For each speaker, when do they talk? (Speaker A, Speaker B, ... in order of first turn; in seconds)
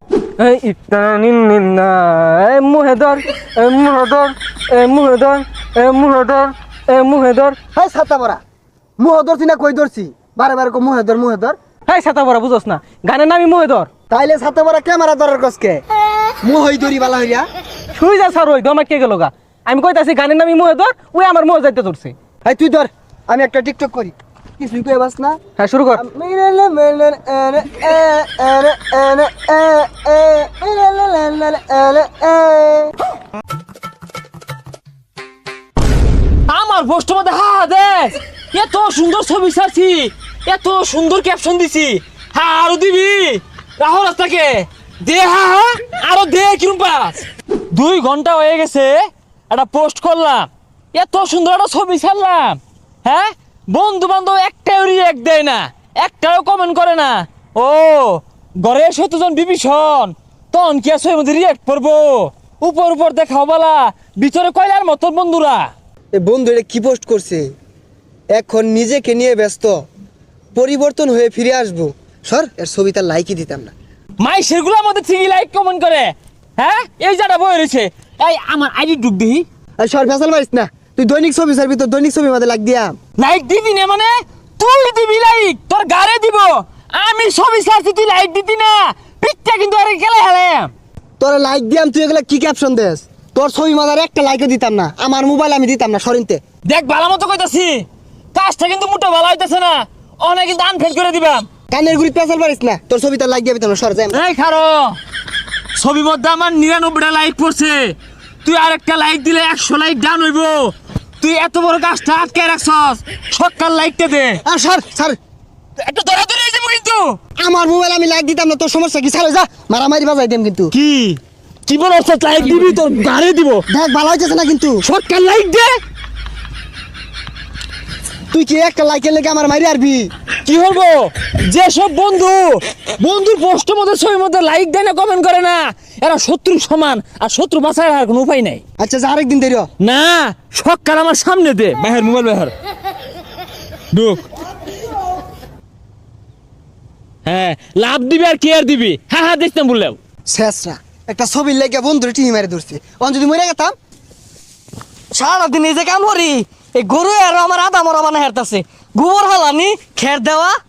Speaker A: 0.4-7.6, 11.9-13.9, 18.0-22.1, 25.6-26.0
Speaker B: 7.7-8.4, 9.0-11.6, 14.1-15.8, 16.4-17.5, 22.4-25.4, 25.9-32.9, 66.1-67.5, 68.3-69.9, 70.5-73.7, 79.8-83.0, 91.2-96.4, 101.7-104.2, 114.5-115.2, 117.4-120.7, 123.7-124.8, 128.3-130.1, 138.8-139.7, 150.3-153.8, 155.3-156.2, 157.8-158.2, 159.1-160.5
Speaker C: 36.5-47.2, 47.7-65.7, 74.2-79.5, 83.2-90.7, 96.7-101.5, 104.1-105.0, 105.8-114.4, 115.8-117.2, 120.7-123.7, 124.8-125.8, 130.4-138.6, 139.8-142.5, 143.9-144.3, 147.2-150.0
Speaker D: 155.2-160.4